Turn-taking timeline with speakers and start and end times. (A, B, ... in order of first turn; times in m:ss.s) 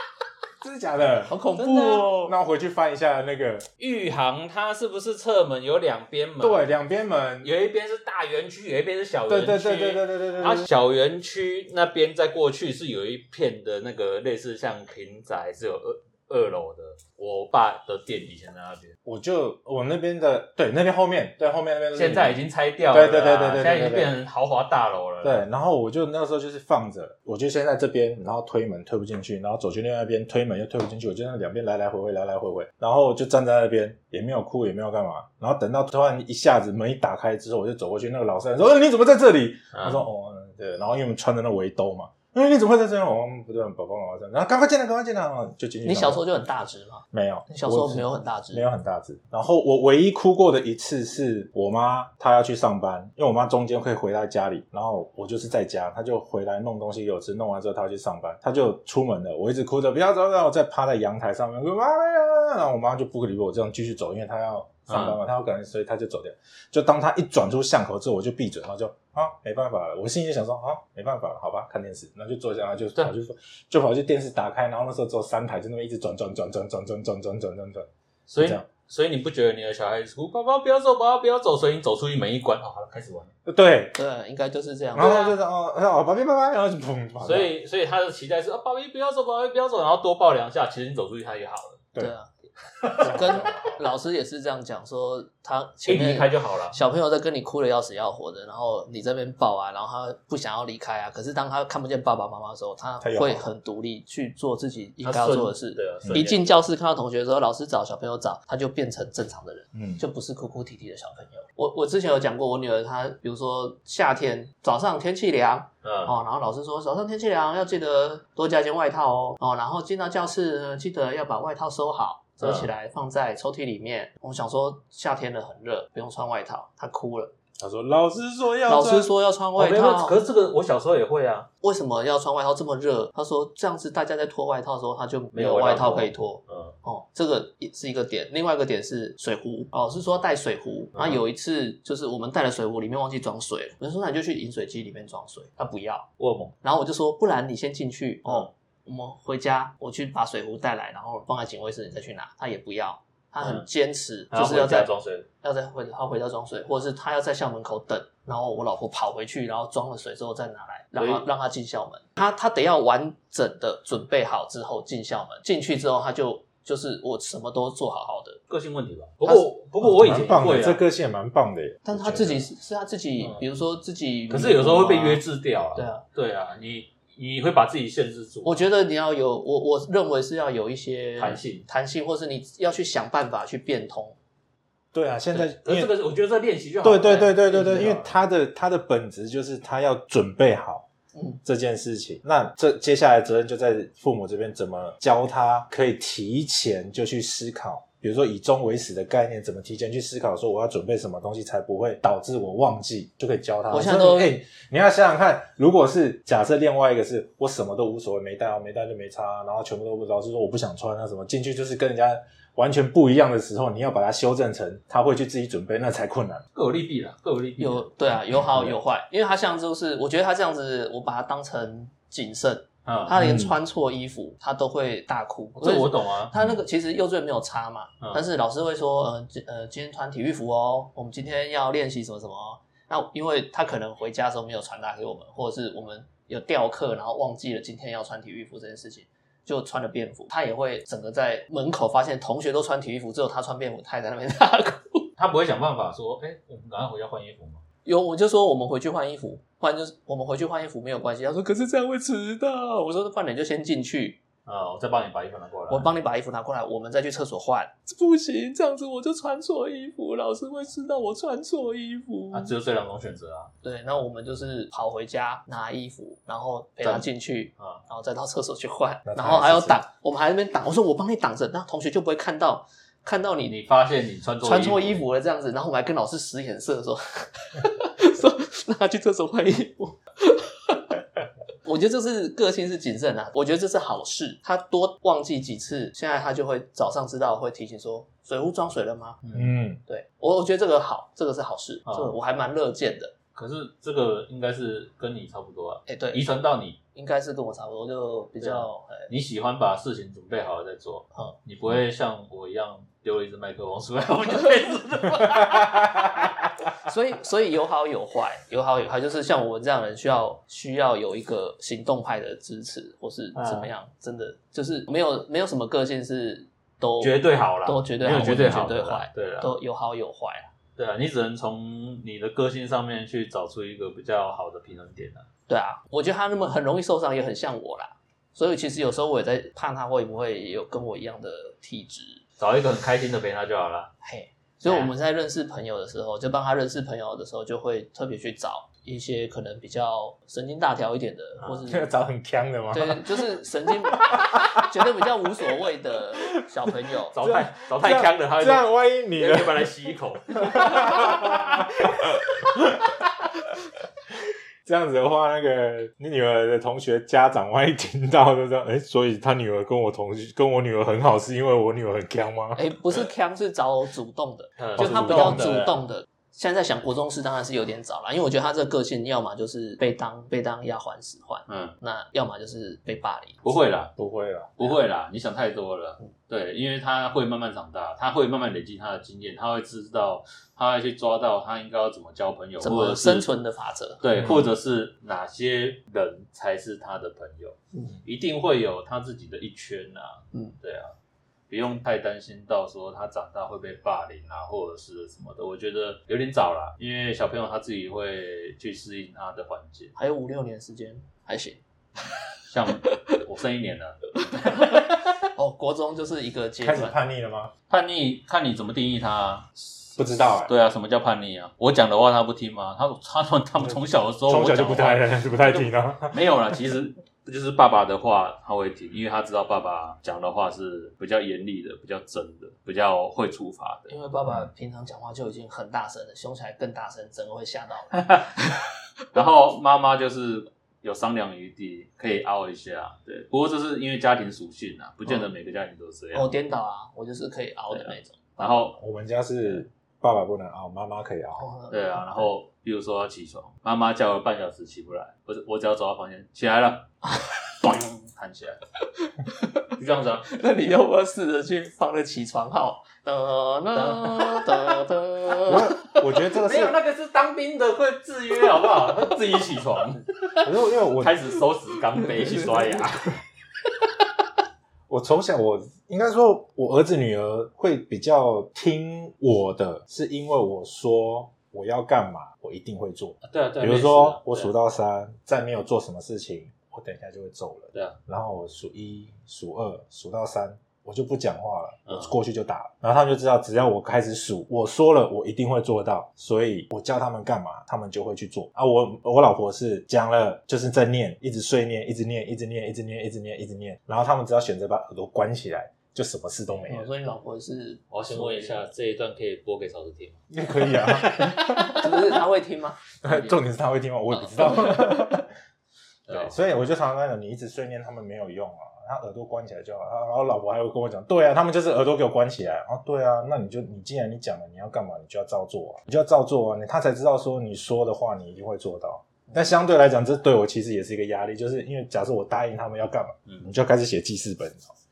0:00.6-0:03.7 A
0:01.3-0:02.3 B
0:01.6-0:02.1 C
0:03.8-0:06.7 C
0:06.4-0:07.5 A
0:07.4-0:18.9 C
0:09.3-0:10.7 A
0:19.0-0:22.4 A
0:22.0-0:25.4 C
0:22.9-0:24.2 A
0:25.2-0:46.2 A
0:39.7-0:40.0 C
0:45.8-0:48.6 B
0:47.1-1:17.9 A
1:04.9-1:05.2 C
1:18.3-1:23.3 C
1:18.4-1:18.7 A
1:23.5-1:24.0 A
1:24.0-1:25.3 B
1:25.0-1:27.5 A
1:25.0-1:25.4 C
1:27.2-1:31.9 C
1:32.0-1:32.3 B
1:32.8-1:33.4 C
1:33.0-2:07.3 B
1:33.0-1:33.8 A
1:35.9-1:36.8 C
1:43.0-1:43.5 A
1:45.0-1:46.4 C
1:49.8-1:50.0 A
1:55.8-1:56.2 C
2:02.4-2:02.7 C
2:07.6-2:09.1 A
2:08.7-2:10.2 B
2:09.6-2:11.5 C
2:11.6-2:26.1 B
2:15.3-2:16.8 C
2:26.2-2:26.6 C
2:26.6-2:34.9 B
2:34.3-2:35.3 C
2:35.4-2:48.4 B
2:41.0-2:41.2 C
2:48.5-2:50.8 C
2:49.8-2:52.4 A
2:51.8-2:55.2 B
2:54.3-2:58.7 C
2:55.8-2:56.0 B
2:58.4-3:04.2 B
3:01.2-3:01.7 C
3:04.9-3:05.9 A
3:05.3-3:08.2 C
3:06.8-3:10.9 A
3:11.2-3:11.4 B
3:11.4-3:36.4 A
3:23.7-3:24.4 B
3:36.5-3:37.9 C
3:37.6-4:05.1 B
3:42.9-3:43.2 C
3:43.2-3:43.6 A
3:45.6-3:46.3 C
4:05.2-4:07.6 C
4:07.8-4:14.2 B
4:14.5-4:15.9 C
4:15.7-4:22.5 B
4:22.3-4:23.5 C
4:23.6-4:33.5 B
4:26.8-4:27.8 C
4:29.0-4:29.8 A
4:33.4-4:35.0 C
4:34.4-4:41.0 B
4:41.6-4:49.2 B
4:49.2-4:49.5 C
4:49.3-4:49.8 A
4:49.9-4:53.2 B
4:51.9-4:52.1 C
4:53.4-4:56.8 C
4:55.9-4:56.2 B
4:57.0-4:59.1 B
4:58.4-5:06.4 C
5:06.8-5:20.5 B
5:13.4-5:13.7 C
5:17.0-5:19.5 C
5:20.8-5:25.3 C
5:25.5-5:32.2 B
5:32.4-5:33.9 C
5:34.0-5:41.9 B
5:34.6-5:34.9 C
5:41.4-5:45.0 A
5:42.7-5:47.2 B
5:47.1-5:51.6 C
5:47.2-5:49.7 A
5:50.4-5:53.0 A
5:54.6-6:02.8 A
6:02.6-6:13.4 B
6:04.6-6:05.8 C
6:04.8-6:05.5 A
6:11.5-6:11.8 C
6:13.4-6:13.9 C
6:14.0-6:14.7 A
6:14.6-6:23.3 C
6:22.6-6:24.0 B
6:24.0-6:31.0 C
6:24.2-6:24.4 A
6:31.5-6:40.0 C
6:40.0-6:41.6 B
6:42.5-6:44.2 C
6:44.4-6:47.0 B
6:46.6-6:47.5 A
6:47.7-7:04.0 C
6:50.0-6:50.5 A
6:53.6-6:56.2 A
7:03.9-7:08.0 B
7:07.9-7:16.3 C
7:15.1-7:15.3 B
7:16.1-7:18.2 B
7:17.7-7:18.8 C
7:18.8-7:21.4 A
7:21.4-7:22.3 B
7:21.7-7:26.9 C
7:27.6-7:28.6 C
7:29.2-7:29.6 B
7:29.7-7:30.3 C
7:30.3-7:36.0 B
7:33.7-7:34.8 C
7:35.4-7:36.8 A
7:36.3-7:43.2 C
7:40.4-7:41.2 A
7:42.0-7:42.8 B
7:44.9-8:16.9 A
7:53.2-7:54.5 C
8:01.9-8:02.1 C
8:16.7-8:18.6 B
8:17.9-8:20.2 C
8:20.3-8:22.0 A
8:21.0-8:23.3 B
8:23.0-8:25.3 A
8:26.1-8:26.4 C
8:26.1-8:44.7 A